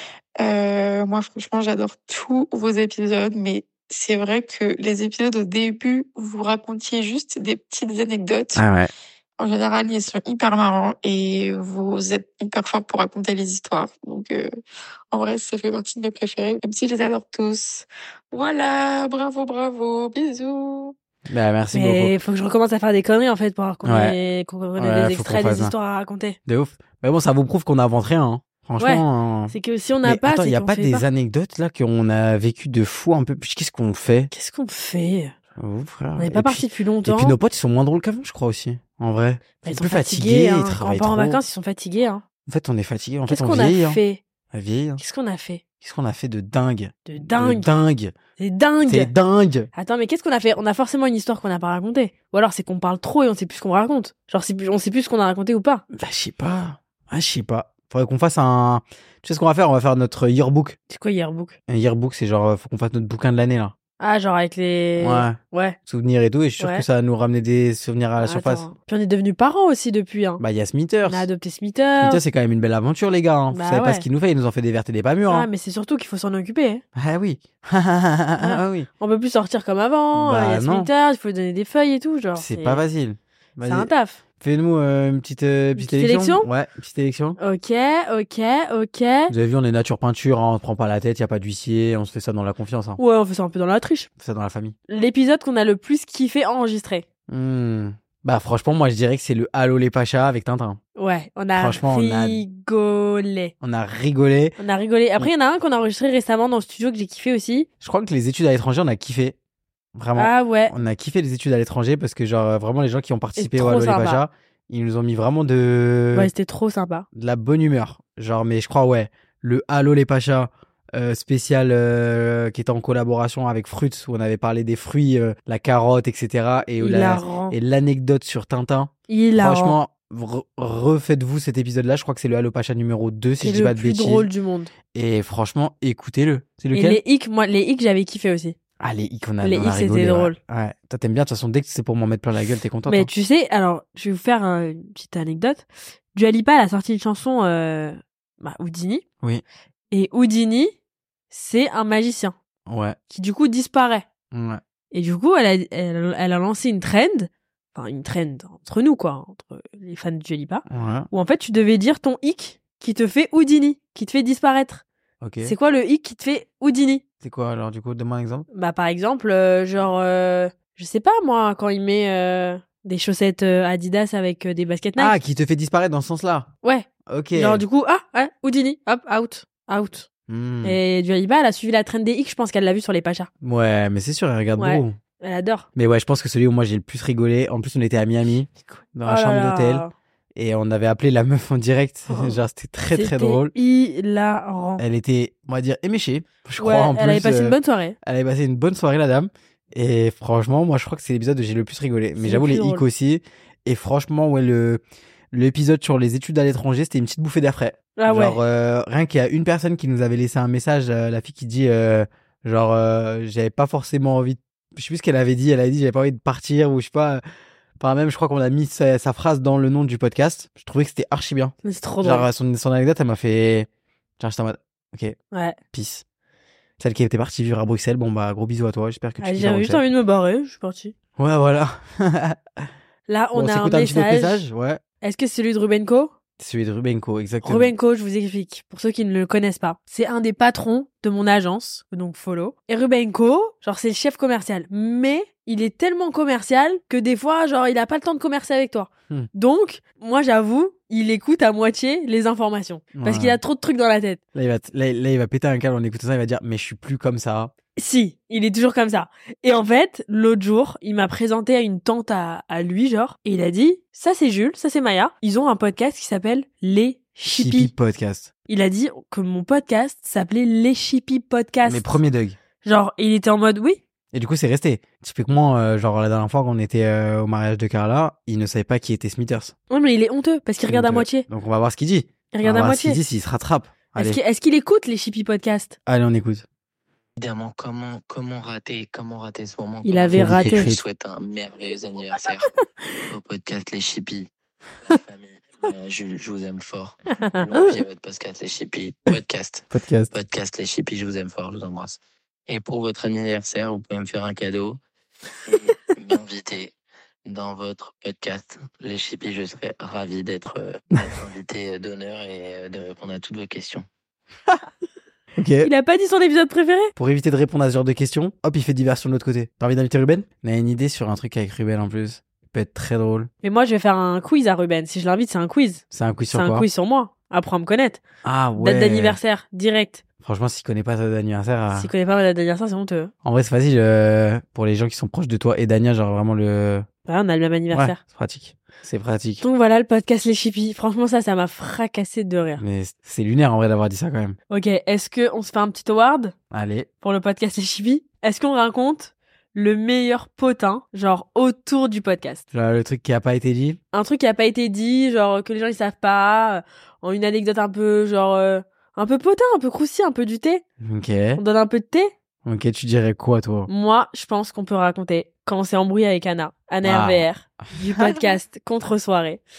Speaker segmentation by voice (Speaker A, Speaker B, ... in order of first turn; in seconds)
Speaker A: 0.4-8.6, 9.4-14.5, 15.1-20.9
Speaker B: 8.6-8.9, 21.3-22.1, 23.8-24.2, 24.8-25.7, 26.5-34.3, 35.6-41.4, 42.5-44.0, 44.5-45.0, 45.8-48.1, 48.9-49.7, 55.9-60.8, 61.7-63.7, 65.0-68.7, 70.4-71.3, 72.0-75.5, 77.0-78.9, 80.1-80.9, 82.3-87.4, 89.3-93.0, 94.2-94.8, 97.3-100.8, 101.5-102.4, 103.6-104.6, 107.8-109.4, 110.0-116.3, 117.1-134.3, 134.9-137.0, 138.8-143.1, 152.7-153.0, 154.3-154.6, 160.7-161.1, 165.2-165.6, 167.2-168.5, 175.0-176.5, 177.1-177.6, 180.3-180.8, 183.4-185.0, 185.8-189.8, 190.3-193.5, 194.8-204.8, 205.3-217.2, 217.8-223.7, 224.2-225.2, 225.7-226.0, 226.8-229.8, 231.2-232.7, 233.3-234.8, 236.4-237.7, 252.9-253.4, 254.3-257.5, 267.3-268.3, 271.6-272.4, 274.1-279.5, 280.7-284.2, 285.9-286.4, 290.1-290.8, 299.7-300.1, 315.4-315.7, 317.0-323.3, 325.9-326.7, 328.2-329.2, 330.2-331.9, 333.2-336.9, 337.7-339.4, 342.6-344.4, 346.5-346.9, 352.5-353.8, 360.8-361.4, 362.4-363.7, 366.8-368.3
Speaker C: 21.7-26.4, 28.8-31.1, 34.3-35.3, 36.2-37.4, 39.6-42.2, 43.3-44.2, 45.0-45.6, 47.1-47.7, 48.4-49.1, 49.8-55.8, 60.9-61.6, 64.0-65.8, 66.6-66.8, 68.2-70.4, 71.0-72.2, 73.5-74.1, 75.3-76.8, 78.4-82.8, 83.6-84.2, 85.8-86.5, 87.4-89.3, 93.0-94.1, 94.9-97.0, 101.0-103.5, 104.6-107.7, 110.2-110.7, 113.4-114.2, 116.1-117.1, 126.8-127.6, 129.1-129.8, 133.4-134.7, 136.7-138.6, 139.4-140.4, 142.9-149.0, 149.9-150.7, 151.3-152.3, 153.1-154.1, 154.9-164.8, 165.4-167.0, 168.5-175.2, 176.6-180.1, 180.6-183.3, 184.6-185.7, 189.1-189.9, 192.1-192.4, 192.9-194.8, 196.6-198.0, 202.2-202.8, 208.0-208.4, 221.6-222.3, 225.3-225.6, 229.2-230.9, 233.1-234.4, 235.0-236.1, 237.4-254.2, 257.8-267.7, 268.5-272.0, 272.6-273.8, 279.7-281.3, 282.3-283.0, 284.0-285.8, 289.8-290.8, 297.2-297.7, 315.6-316.9, 323.4-328.0, 328.6-330.0, 331.7-333.1, 337.1-338.0, 339.4-342.6, 344.5-346.3, 347.0-352.4, 353.9-360.6, 361.4-362.1, 363.7-369.4
Speaker D: 287.2-292.5, 293.1-294.3, 294.9-304.8, 305.5-306.7, 307.3-313.9